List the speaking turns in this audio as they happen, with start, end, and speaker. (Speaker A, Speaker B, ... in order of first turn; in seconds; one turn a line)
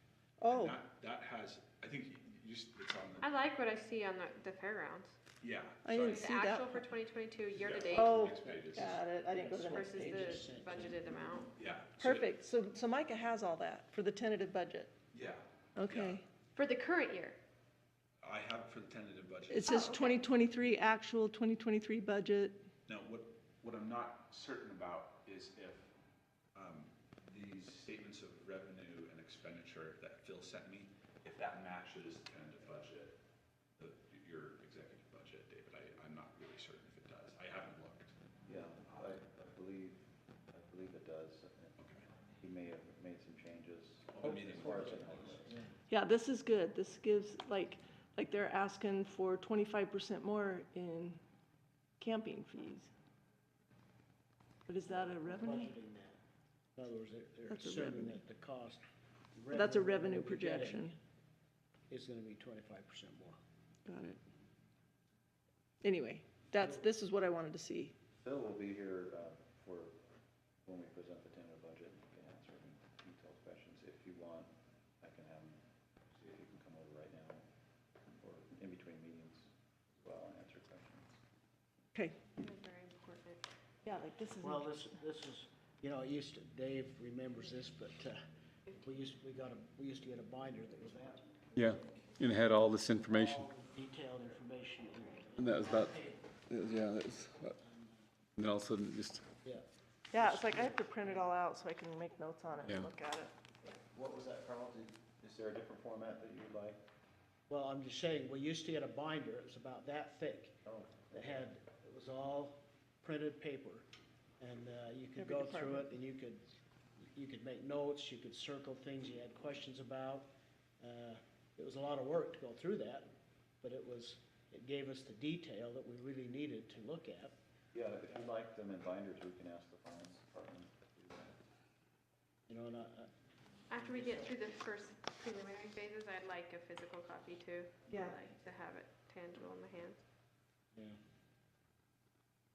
Speaker A: 0.4-0.8
Speaker B: 0.5-3.4
Speaker C: 3.2-5.2
Speaker B: 5.4-6.2
Speaker A: 5.8-6.9
Speaker C: 6.1-8.3
Speaker B: 7.5-9.1
Speaker A: 7.9-10.4
Speaker D: 9.3-11.4
Speaker C: 9.6-11.5
Speaker B: 11.6-12.3
Speaker A: 12.0-14.9
Speaker B: 15.1-16.2
Speaker A: 15.8-16.2
Speaker C: 16.6-17.4
Speaker B: 18.2-19.8
Speaker A: 19.5-22.6
Speaker C: 19.7-20.2
Speaker B: 22.9-25.9
Speaker B: 26.6-33.2
Speaker B: 33.8-38.1
Speaker E: 38.5-41.8
Speaker B: 38.8-39.2
Speaker B: 41.8-42.1
Speaker E: 42.4-45.5
Speaker B: 44.1-45.5
Speaker A: 45.9-51.2
Speaker A: 52.0-52.9
Speaker A: 54.7-55.7
Speaker D: 54.9-56.2
Speaker D: 56.8-58.8
Speaker A: 57.5-58.2
Speaker D: 59.4-60.9
Speaker A: 59.5-61.0
Speaker D: 61.9-63.4
Speaker A: 63.9-64.2
Speaker A: 65.8-68.0
Speaker E: 68.2-70.0
Speaker E: 70.7-75.6
Speaker E: 76.2-77.5
Speaker E: 78.2-81.1
Speaker C: 82.4-83.5
Speaker A: 83.8-84.9
Speaker D: 84.4-92.0
Speaker F: 91.5-93.5
Speaker D: 93.0-96.3
Speaker F: 95.4-96.0
Speaker F: 96.5-97.6
Speaker D: 97.6-97.9
Speaker F: 98.4-99.2
Speaker D: 99.4-101.2
Speaker A: 100.1-103.3
Speaker E: 103.6-106.8
Speaker D: 107.5-110.6
Speaker E: 110.7-111.3
Speaker D: 111.1-113.9
Speaker D: 114.4-120.3
Speaker A: 115.2-115.9
Speaker D: 120.8-127.4
Speaker E: 127.7-131.4
Speaker D: 132.5-133.1
Speaker C: 133.7-140.0
Speaker D: 133.8-134.5
Speaker A: 137.9-138.2